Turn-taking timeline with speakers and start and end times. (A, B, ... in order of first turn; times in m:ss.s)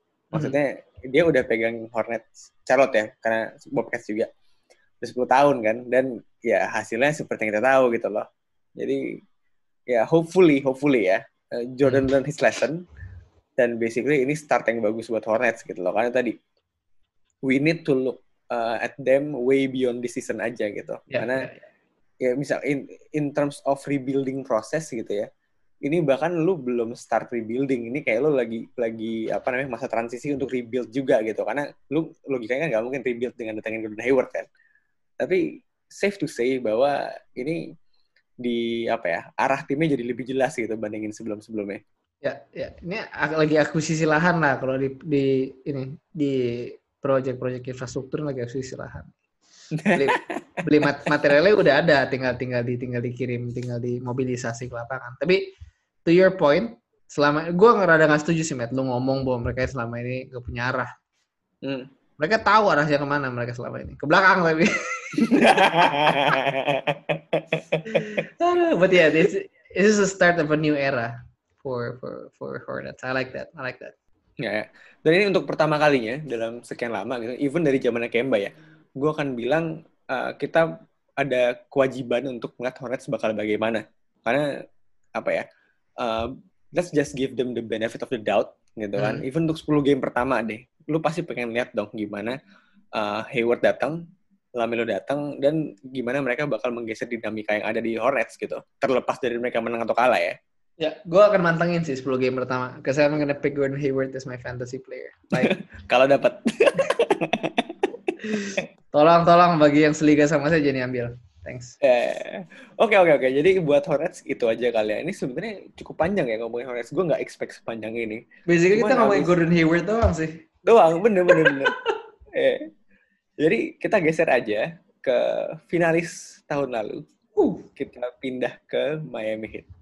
0:00.3-0:00.6 A
0:00.3-0:04.3 B
0:05.0-0:08.2 B
0:09.9-0:12.8 B
0:13.6-0:16.3 B
0:17.4-0:21.5 B
0:21.1-0:21.6 A
0:22.2-0:25.3 B
0:25.8-0:34.5 B
0:35.2-0:37.6 B
0:38.4-0:41.8 B
0:42.2-0:49.1 A
0:49.7-0:50.2 B
0:49.9-0:55.5 A
0:56.1-1:00.9 A
1:01.6-1:01.9 B
1:02.2-1:05.6 A
1:05.2-1:08.1 B
1:07.9-1:14.0 A
1:14.4-1:20.7 B
1:21.2-1:24.5 B
1:25.2-1:25.4 B
1:26.0-1:32.4 B
1:29.0-1:29.2 A
1:33.0-1:34.0 B
1:34.6-1:40.4 B
1:40.8-1:45.6 A
1:45.4-1:47.9 B
1:48.3-1:51.8 A
1:51.8-1:59.3 B
1:58.5-2:00.4 A
2:00.6-2:01.7 B
2:01.3-2:01.7 A
2:02.3-2:02.6 B
2:03.4-2:07.0 B
2:07.4-2:07.6 A
2:07.8-2:09.7 B